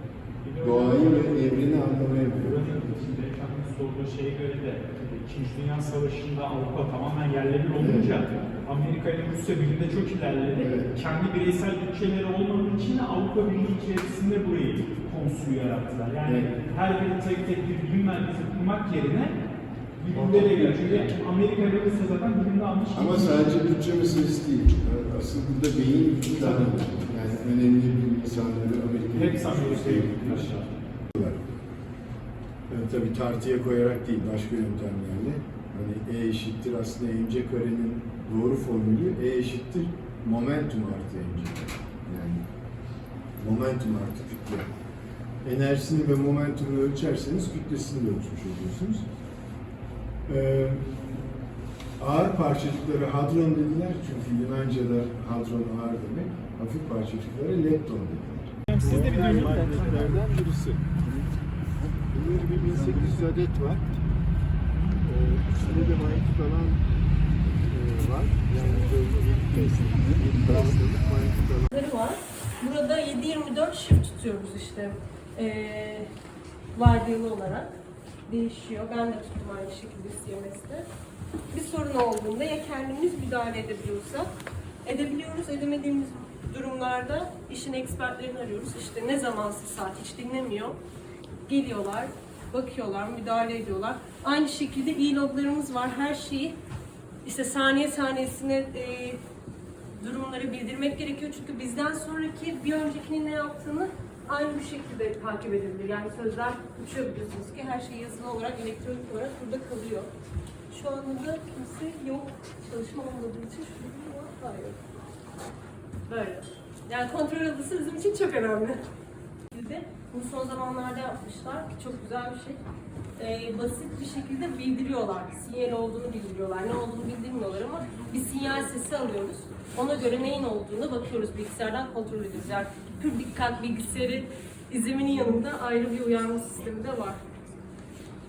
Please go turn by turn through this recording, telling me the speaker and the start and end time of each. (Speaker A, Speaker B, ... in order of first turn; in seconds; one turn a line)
Speaker A: 0.5-1.3
Speaker B: 0.6-2.6
Speaker A: 2.4-19.4
Speaker B: 7.8-8.5
Speaker B: 10.6-10.9
Speaker B: 16.2-16.5
Speaker A: 20.0-23.6
Speaker B: 20.1-21.1
Speaker B: 22.9-30.6
Speaker A: 26.4-26.7
Speaker A: 29.1-30.7
Speaker B: 31.1-31.4
Speaker B: 32.7-42.4
Speaker B: 43.4-44.7
Speaker B: 45.4-49.1
Speaker B: 50.3-51.1
Speaker B: 52.0-60.9
Speaker A: 58.7-60.2
Speaker B: 62.1-63.9
Speaker A: 62.6-63.1
Speaker B: 65.0-66.8
Speaker B: 67.7-71.8
Speaker A: 69.5-70.6
Speaker C: 71.7-76.1
Speaker C: 76.7-77.7
Speaker C: 78.3-80.9
Speaker C: 81.5-84.3
Speaker C: 84.8-90.8
Speaker C: 91.5-96.6
Speaker C: 97.2-99.2
Speaker C: 100.0-110.1
Speaker C: 110.7-114.8
Speaker C: 116.1-118.8
Speaker C: 119.5-122.6
Speaker C: 123.2-137.2